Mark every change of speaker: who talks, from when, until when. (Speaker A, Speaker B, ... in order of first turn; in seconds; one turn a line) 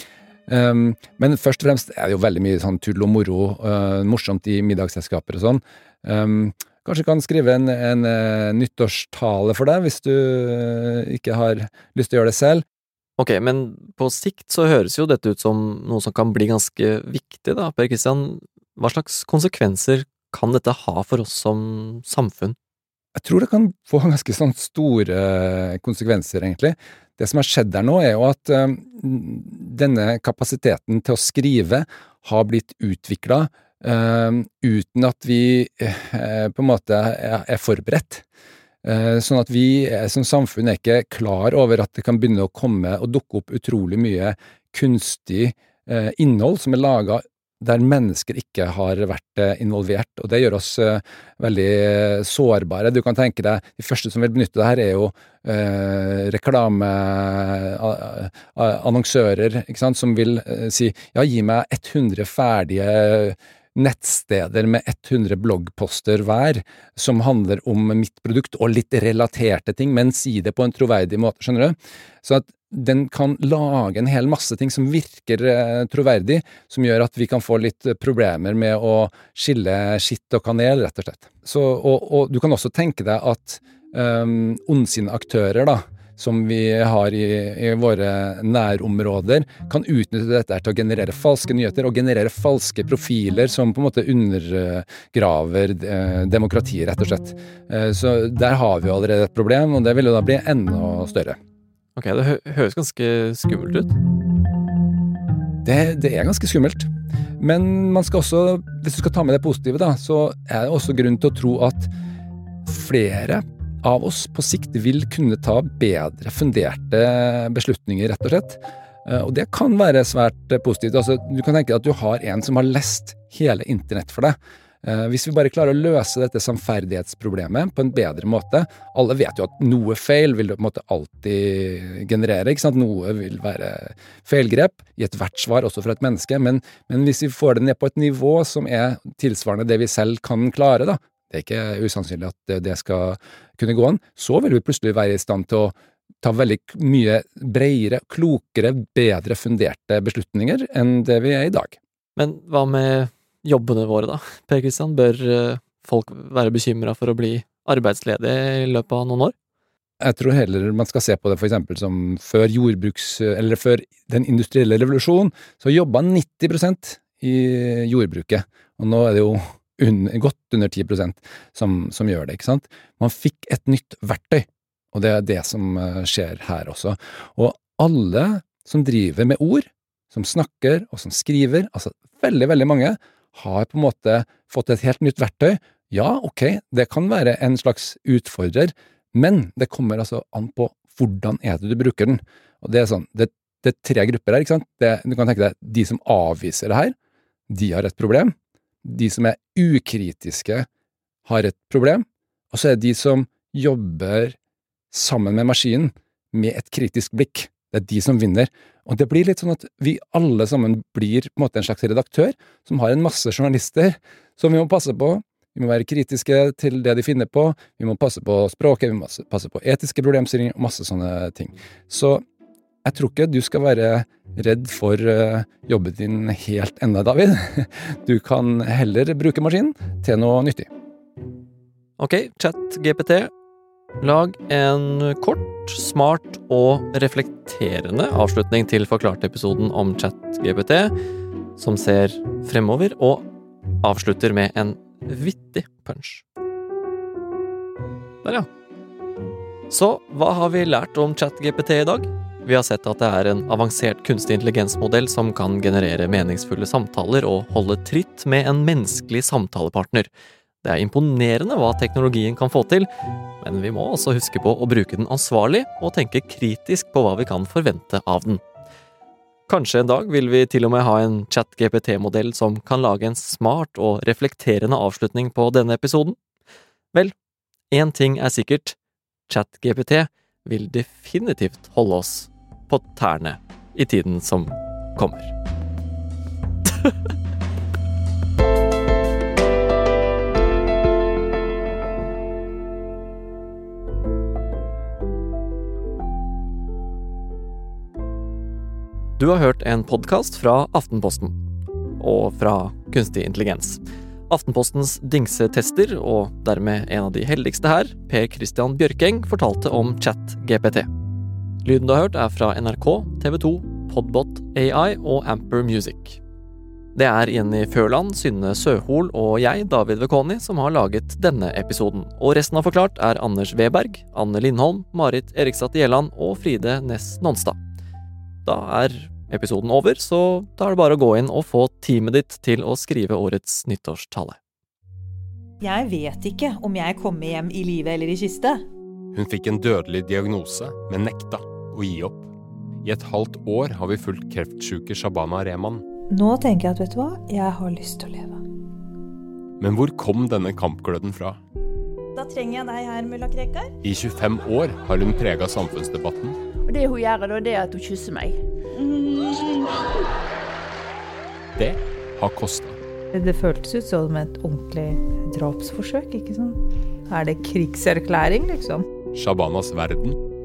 Speaker A: 0.5-12.6
Speaker B: 13.2-22.6
Speaker A: 23.1-38.2
Speaker A: 38.8-101.4
Speaker B: 102.0-104.0
Speaker A: 105.6-106.9
Speaker A: 107.4-111.9
Speaker A: 112.7-151.8
Speaker B: 152.2-159.3
Speaker A: 160.0-196.9
Speaker A: 197.5-200.7
Speaker A: 201.3-204.4
Speaker A: 204.9-222.2
Speaker A: 222.8-230.7
Speaker B: 232.0-233.3
Speaker B: 234.0-240.9
Speaker B: 241.6-243.3
Speaker B: 243.8-246.2
Speaker B: 249.7-260.1
Speaker B: 260.6-262.9
Speaker B: 263.4-268.4
Speaker B: 269.5-276.2
Speaker B: 277.7-278.8
Speaker B: 279.3-285.3
Speaker B: 299.2-301.4
Speaker B: 302.0-310.9
Speaker B: 311.6-316.2
Speaker B: 316.9-327.6
Speaker B: 328.4-334.4
Speaker C: 335.6-338.6
Speaker D: 339.1-342.3
Speaker D: 342.8-345.9
Speaker C: 346.1-348.4
Speaker D: 349.6-351.4
Speaker C: 352.2-353.7
Speaker D: 353.8-356.4
Speaker E: 356.6-359.8
Speaker D: 361.6-362.8
Speaker C: 363.1-368.9
Speaker D: 369.1-370.2